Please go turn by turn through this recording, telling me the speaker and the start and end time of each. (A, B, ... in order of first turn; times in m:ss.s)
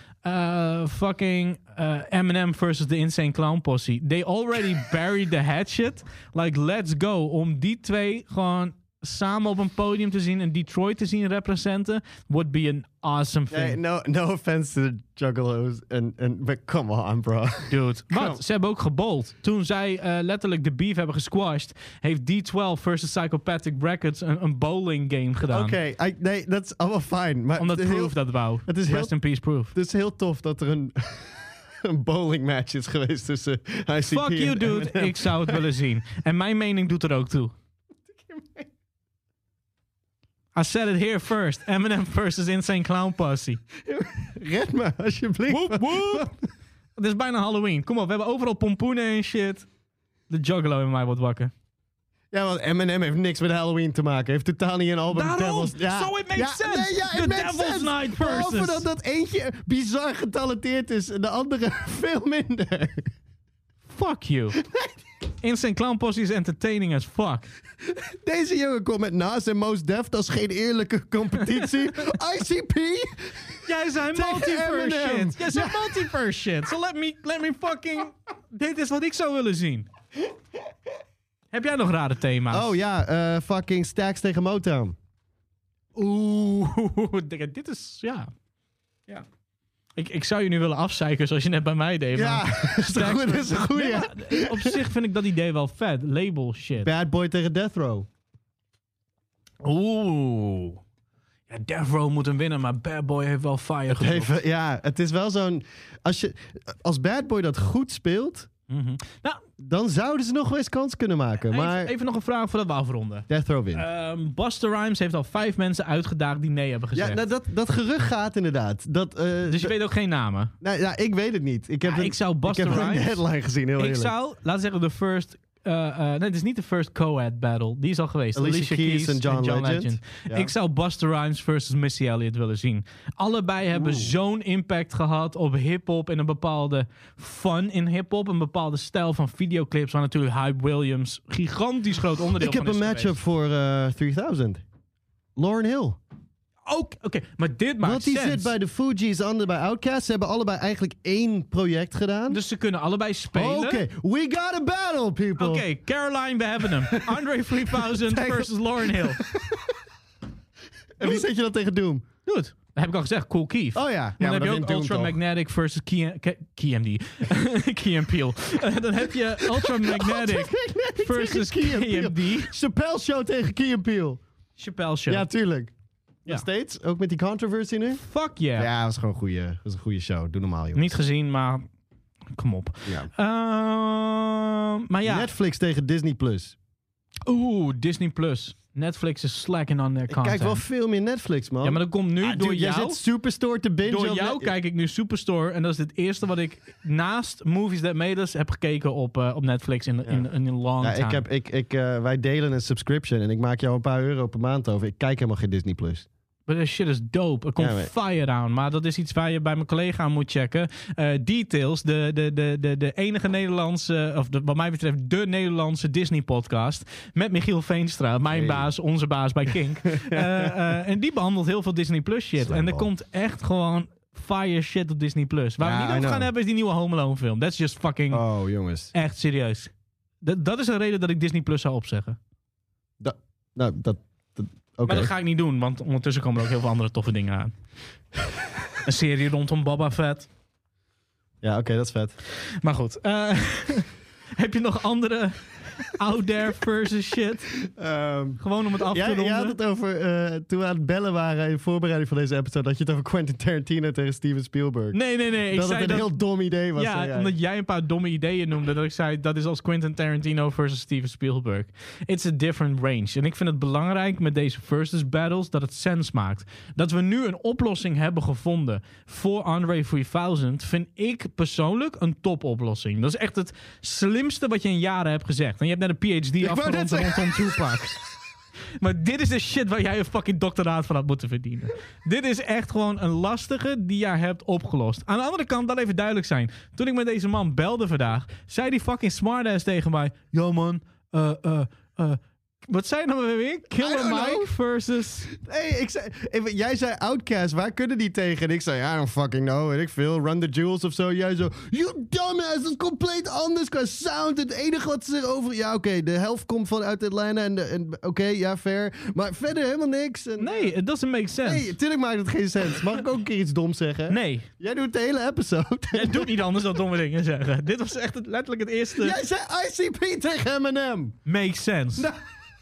0:00.2-0:13.8 A
0:13.5-0:18.4 B
0:17.7-0:25.8 A
0:25.5-0:29.1 B
0:27.6-0:29.7 A
0:29.7-0:35.6 B
0:34.1-0:37.6 A
0:38.2-0:38.6 B
0:40.6-0:43.6 A
0:43.8-0:46.4 B
0:45.5-0:46.3 A
0:47.0-0:49.7 A
0:50.3-0:51.5 A
0:52.3-1:03.1 B
0:55.1-0:58.9 A
1:03.9-1:04.6 A
1:05.4-1:07.5 A
1:07.9-1:13.6 B
1:11.4-1:11.7 A
1:13.6-1:19.9 A
1:14.1-1:16.1 B
1:21.5-1:22.7 A
1:22.5-1:25.0 B
1:26.0-1:28.3 A
1:30.0-1:36.9 A
1:32.1-1:34.8 B
1:36.8-1:38.1 B
1:39.6-1:40.8 A
1:41.5-1:44.3 A
1:43.9-1:48.5 B
1:48.7-1:49.4 A
1:49.6-1:51.9 B
1:51.5-1:57.2 A
1:53.3-1:53.9 B
1:57.0-1:59.7 B
1:59.5-2:00.5 A
2:00.6-2:04.1 B
2:01.8-2:03.2 A
2:03.8-2:23.2 A
2:08.4-2:10.5 B
2:13.7-2:14.1 B
2:22.4-2:24.6 B
2:25.4-2:26.0 B
2:26.7-2:28.5 A
2:27.8-2:32.4 B
2:32.3-2:33.8 A
2:33.3-2:35.7 B
2:35.4-2:39.2 A
2:36.9-2:37.2 B
2:37.7-2:39.7 B
2:41.0-2:42.0 B
2:42.3-2:52.5 A
2:43.8-2:45.2 B
2:49.4-2:54.2 B
2:54.6-2:55.3 A
2:55.1-2:55.7 B
2:56.2-2:58.0 B
2:58.0-2:58.7 A
2:58.6-3:01.0 B
3:00.8-3:01.6 A
3:02.3-3:05.3 A
3:05.0-3:06.6 B
3:07.3-3:10.6 A
3:10.1-3:14.5 B
3:11.6-3:13.0 A
3:13.8-3:21.2 A
3:20.8-3:26.1 B
3:26.5-3:48.2 A
3:27.6-3:27.9 B
3:38.3-3:38.7 B
3:39.9-3:40.6 B
3:42.4-3:42.9 B
3:45.6-3:46.3 B
3:48.1-3:48.9 B
3:48.9-3:52.2 A
3:53.0-3:55.1 B
3:54.9-3:57.5 A
3:58.8-4:00.3 A
4:01.4-4:02.2 B
4:02.6-4:07.6 A
4:07.6-4:15.0 B
4:08.4-4:09.6 A
4:14.9-4:16.1 A
4:15.5-4:17.3 B
4:16.8-4:38.0 A
4:36.4-4:37.5 B
4:38.8-4:55.3 A
4:53.8-4:54.5 B
4:55.3-5:10.7 B
5:10.4-5:11.7 A
5:11.4-5:16.4 B
5:14.1-5:14.5 A
5:15.9-5:19.2 A
5:19.0-5:21.2 B
5:21.3-5:22.1 A